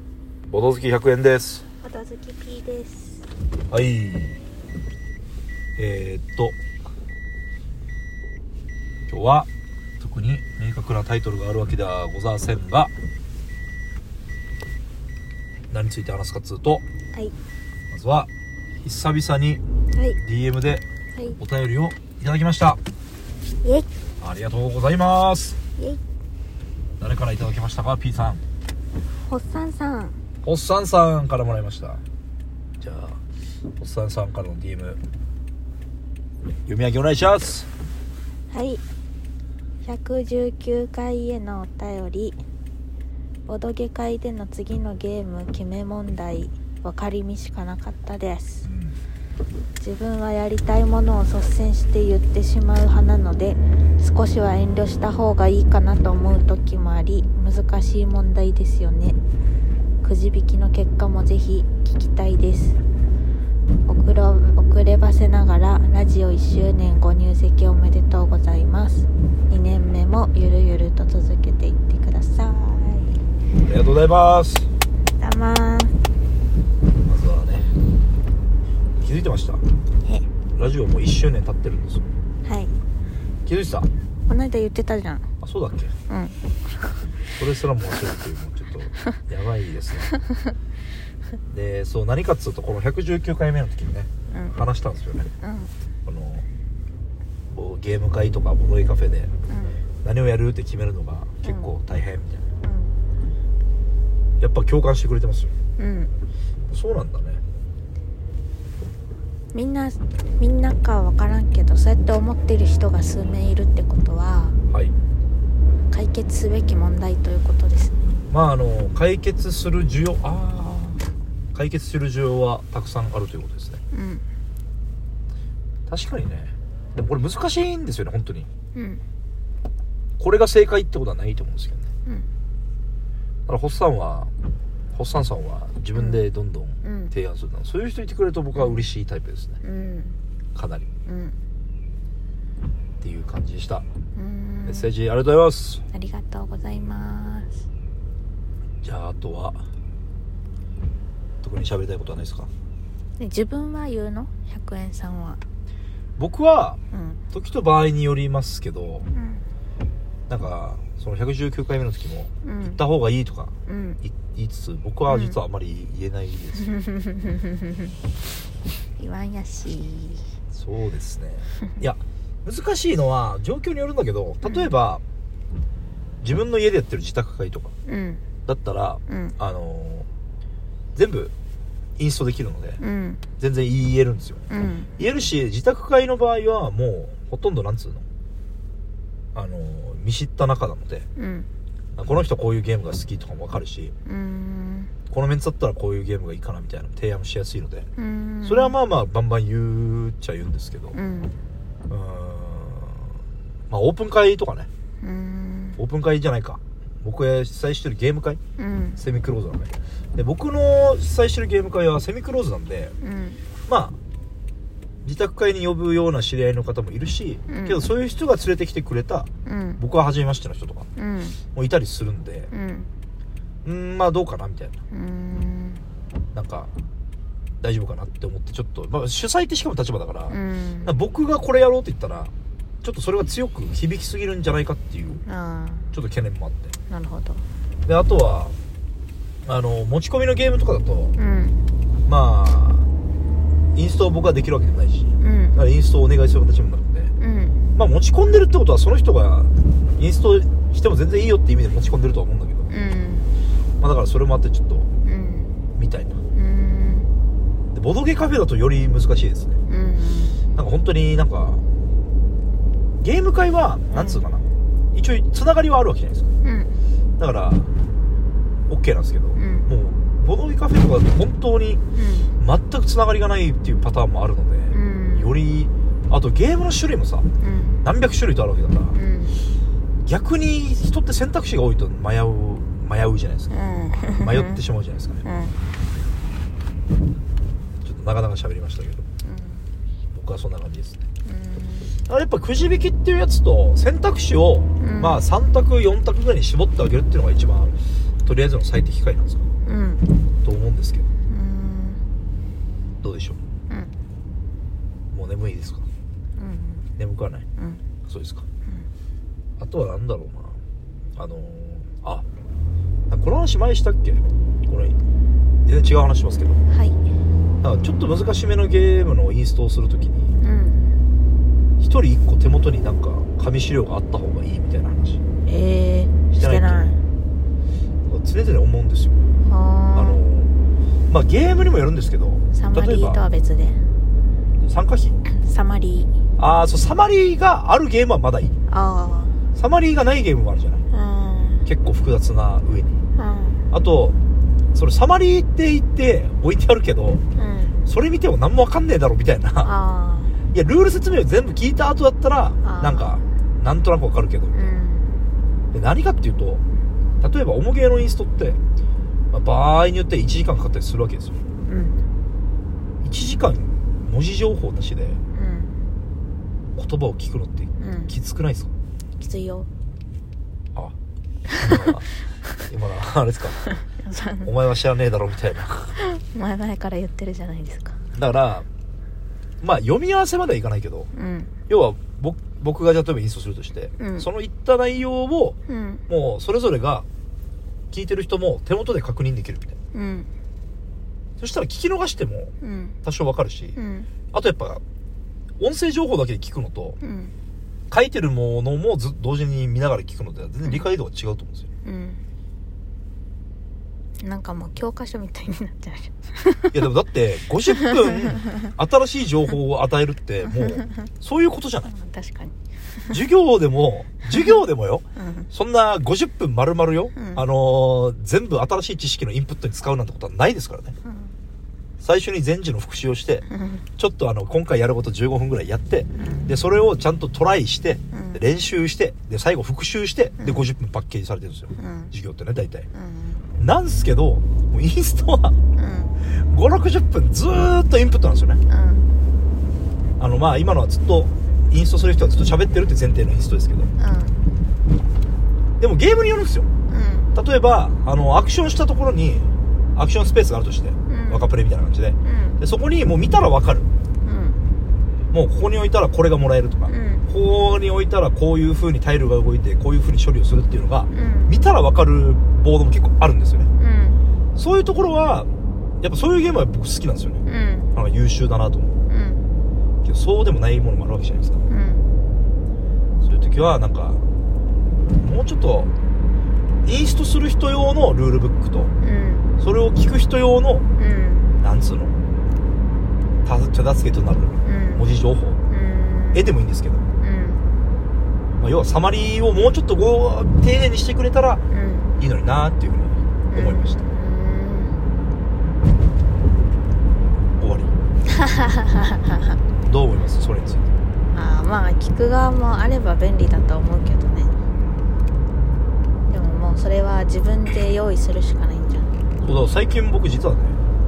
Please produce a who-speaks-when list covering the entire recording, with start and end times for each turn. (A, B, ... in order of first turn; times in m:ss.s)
0:00.5-0:01.6 A
0:01.8-0:03.2 B
0:03.7-0:04.4 A
0:05.8-0:06.6 A
0:09.1-0:09.5 A
0:10.0-0:12.9 A
0:15.7-0:16.8 A
0:17.9-0:18.3 A
0:18.8-0:19.6 A
0:19.9-0:20.2 B
0:20.2-0:20.8 A
0:21.4-0:22.8 A
0:23.6-0:23.9 B
0:24.2-0:25.6 A
0:27.0-0:28.4 A
0:29.3-0:30.2 B
0:30.4-0:32.0 A
0:32.8-0:33.2 A
0:33.8-0:35.0 A
0:36.6-0:37.7 A
0:38.5-0:38.8 B
0:39.8-0:42.4 B
0:43.5-0:48.7 B
0:48.6-0:49.0 A
0:49.8-0:59.2 B
1:00.0-1:02.8 B
1:03.9-1:13.2 B
1:13.6-1:14.7 A
1:15.2-1:15.9 B
1:17.0-1:17.7 A
1:19.0-1:19.6 A
1:20.6-1:22.1 A
1:22.4-1:22.7 B
1:23.4-1:23.9 A
1:24.3-1:25.3 B
1:25.4-1:25.9 A
1:26.1-1:26.4 B
1:27.4-1:30.2 A
1:31.5-1:35.3 A
1:34.3-1:34.6 B
1:35.4-1:35.7 B
1:36.0-1:36.4 A
1:37.5-1:39.3 A
1:39.5-1:39.8 B
1:40.0-1:42.4 A
1:41.4-1:41.7 B
1:42.6-1:43.0 B
1:44.4-1:45.5 A
1:45.8-1:46.1 B
1:46.7-1:47.4 A
1:49.5-1:54.6 B
1:54.7-1:54.9 A
1:55.9-1:58.0 B
1:58.3-2:01.0 A
2:01.5-2:03.8 A
2:03.9-2:04.2 B
2:05.9-2:08.5 A
2:08.7-2:09.0 B
2:10.2-2:11.9 A
2:13.5-2:14.3 A
2:14.9-2:19.6 A
2:15.9-2:16.2 B
2:16.8-2:17.1 B
2:18.5-2:18.8 B
2:19.6-2:20.2 B
2:20.5-2:20.9 A
2:21.0-2:21.4 B
2:23.0-2:23.8 A
2:24.1-2:24.9 B
2:24.6-2:25.8 A
2:25.9-2:27.6 B
2:28.8-2:29.6 A
2:31.4-2:32.5 A
2:33.2-2:35.4 B
2:36.2-2:36.8 A
2:36.9-2:37.2 B
2:37.3-2:39.1 A
2:39.1-2:39.4 B
2:40.3-2:46.7 A
2:42.4-2:42.8 B
2:43.7-2:44.0 B
2:45.1-2:45.4 B
2:46.6-2:47.9 B
2:49.0-2:50.4 B
2:50.5-2:55.0 A
2:56.2-2:57.7 A
2:57.8-2:58.2 B
2:58.4-3:00.1 A
2:59.1-2:59.3 B
3:00.9-3:01.3 A
3:02.0-3:02.8 A
3:02.8-3:03.2 B
3:03.4-3:04.4 A
3:04.5-3:04.9 B
3:05.0-3:08.0 A
3:09.3-3:11.1 A
3:11.2-3:11.5 B
3:12.0-3:13.9 A
3:14.0-3:14.9 B
3:15.1-3:17.9 A
3:18.0-3:18.8 B
3:18.4-3:21.0 A
3:20.9-3:21.4 B
3:21.9-3:23.1 A
3:23.7-3:24.7 A
3:25.0-3:25.8 B
3:25.8-3:28.4 A
3:28.6-3:29.0 B
3:29.0-3:32.9 A
3:33.0-3:33.4 B
3:33.7-3:34.0 A
3:35.0-3:39.3 A
3:37.5-3:37.8 B
3:39.4-3:39.8 B
3:39.8-3:40.9 A
3:41.0-3:41.4 B
3:41.5-3:42.5 A
3:42.5-3:42.9 B
3:43.6-3:44.8 A
3:44.9-3:45.8 B
3:46.3-3:46.7 A
3:47.6-3:52.3 A
3:50.3-3:50.9 B
3:52.8-3:55.2 A
3:55.2-3:55.9 B
3:55.9-3:56.7 A
3:56.9-3:57.4 B
3:57.8-3:58.5 A
3:59.4-4:01.1 A
4:01.2-4:01.6 B
4:02.0-4:02.9 A
4:03.7-4:07.1 A
4:05.2-4:05.6 B
4:07.2-4:07.6 B
4:07.7-4:12.7 A
4:12.7-4:13.3 B
4:13.8-4:14.9 A
4:15.0-4:15.5 B
4:15.7-4:16.2 A
4:16.3-4:17.1 B
4:17.7-4:19.6 A
4:19.7-4:20.4 B
4:20.5-4:21.6 A
4:23.0-4:26.3 A
4:23.9-4:24.2 B
4:26.4-4:26.8 B
4:27.2-4:27.7 A
4:28.7-4:31.8 A
4:29.4-4:29.7 B
4:31.9-4:32.3 B
4:32.4-4:37.3 A
4:34.7-4:35.4 B
4:37.4-4:37.8 B
4:37.8-4:39.0 A
4:38.9-4:39.4 B
4:40.0-4:43.5 A
4:43.5-4:44.6 B
4:44.0-4:45.2 A
4:45.2-4:45.6 B
4:47.8-4:49.0 A
4:49.2-4:49.6 B
4:50.1-4:51.0 A
4:51.2-4:51.9 B
4:52.1-4:59.4 A
4:54.8-4:55.2 B
4:59.6-5:00.1 B
5:00.4-5:01.1 A
5:01.3-5:02.0 B
5:03.0-5:03.4 A
5:05.1-5:05.8 A
5:06.4-5:06.8 B
5:07.0-5:07.4 A
5:07.6-5:07.8 B
5:08.1-5:08.4 A
5:09.6-5:10.6 A
5:11.2-5:12.2 A
5:13.1-5:15.0 A
5:15.6-5:16.6 A
5:16.7-5:17.0 B
5:17.6-5:20.3 A
5:20.4-5:20.9 B
5:21.8-5:25.2 A
5:25.4-5:27.0 B
5:26.3-5:26.9 A
5:28.1-5:29.2 A
5:29.4-5:30.2 B
5:29.9-5:30.5 A
5:31.1-5:33.2 A
5:32.5-5:33.8 B
5:34.6-5:35.2 A
5:35.2-5:36.1 B
5:36.4-5:38.5 A
5:38.7-5:39.4 B
5:39.5-5:40.8 A
5:40.9-5:41.6 B
5:41.6-5:43.0 A
5:43.1-5:43.6 B
5:43.7-5:44.2 A
5:44.7-5:47.2 A
5:47.3-5:47.8 B
5:47.8-5:49.7 A
5:49.6-5:50.4 B
5:50.5-5:54.7 A
5:52.6-5:53.2 B
5:54.5-5:55.1 B
5:55.7-5:56.6 A
5:57.2-5:58.6 A
5:59.3-6:01.4 A
6:01.6-6:02.0 B
6:03.0-6:05.2 A
6:05.3-6:05.7 B
6:06.8-6:08.7 A
6:07.8-6:08.1 B
6:09.2-6:09.7 B
6:11.5-6:11.9 B
6:11.6-6:12.1 A
6:12.6-6:13.7 A
6:13.8-6:14.5 B
6:14.4-6:16.0 A
6:16.0-6:18.0 B
6:18.1-6:18.6 A
6:19.6-6:21.1 A
6:21.1-6:21.5 B
6:21.7-6:25.6 A
6:24.0-6:24.3 B
6:25.7-6:26.0 B
6:26.1-6:27.1 A
6:27.9-6:29.8 A
6:29.9-6:30.3 B
6:31.4-6:32.5 A
6:32.6-6:33.0 B
6:33.0-6:33.7 A
6:33.8-6:34.1 B
6:34.3-6:34.8 A
6:35.6-6:37.0 A
6:37.0-6:37.3 B
6:37.9-6:41.7 A
6:41.8-6:42.2 B
6:44.2-6:46.8 B
6:46.7-6:51.9 A
6:47.7-6:48.7 B
6:50.5-6:51.1 B
6:51.8-6:53.2 B
6:53.1-7:00.9 A
6:55.2-6:55.5 B
6:57.1-6:57.4 B
7:01.0-7:01.3 B
7:02.0-7:03.4 A
7:03.5-7:03.8 B
7:04.0-7:12.9 A
7:06.1-7:06.5 B
7:08.1-7:08.4 B
7:10.4-7:10.7 B
7:11.8-7:12.1 B
7:12.9-7:13.4 B
7:13.5-7:15.6 A
7:15.8-7:16.1 B
7:16.2-7:18.6 A
7:18.7-7:19.1 B
7:20.2-7:23.9 A
7:24.0-7:24.4 B
7:25.8-7:26.7 A
7:26.9-7:27.3 B
7:27.3-7:33.9 A
7:31.1-7:31.5 B
7:32.2-7:32.6 B
7:34.2-7:34.6 B
7:35.3-7:43.7 A
7:36.9-7:37.2 B
7:41.1-7:41.5 B
7:43.8-7:44.2 B
7:44.6-7:45.5 A
7:46.0-7:47.4 A
7:47.4-7:47.9 B
7:47.9-7:48.9 A
7:49.1-7:49.4 B
7:50.0-7:51.6 A
7:51.7-7:52.0 B
7:53.2-7:54.2 A
7:55.1-7:55.9 A
7:56.8-7:58.9 A
7:59.0-7:59.5 B
7:59.6-8:00.8 A
8:01.0-8:01.5 B
8:01.6-8:02.2 A
8:03.4-8:05.6 A
8:04.6-8:05.0 B
8:05.7-8:06.5 B
8:06.3-8:07.0 A
8:07.2-8:07.7 B
8:08.6-8:11.6 A
8:11.7-8:12.1 B
8:12.2-8:14.0 A
8:13.5-8:15.0 B
8:17.6-8:17.9 A
8:18.3-8:19.6 B
8:19.8-8:20.9 A
8:21.3-8:24.5 B
8:26.3-8:29.1 B
8:29.4-8:30.8 A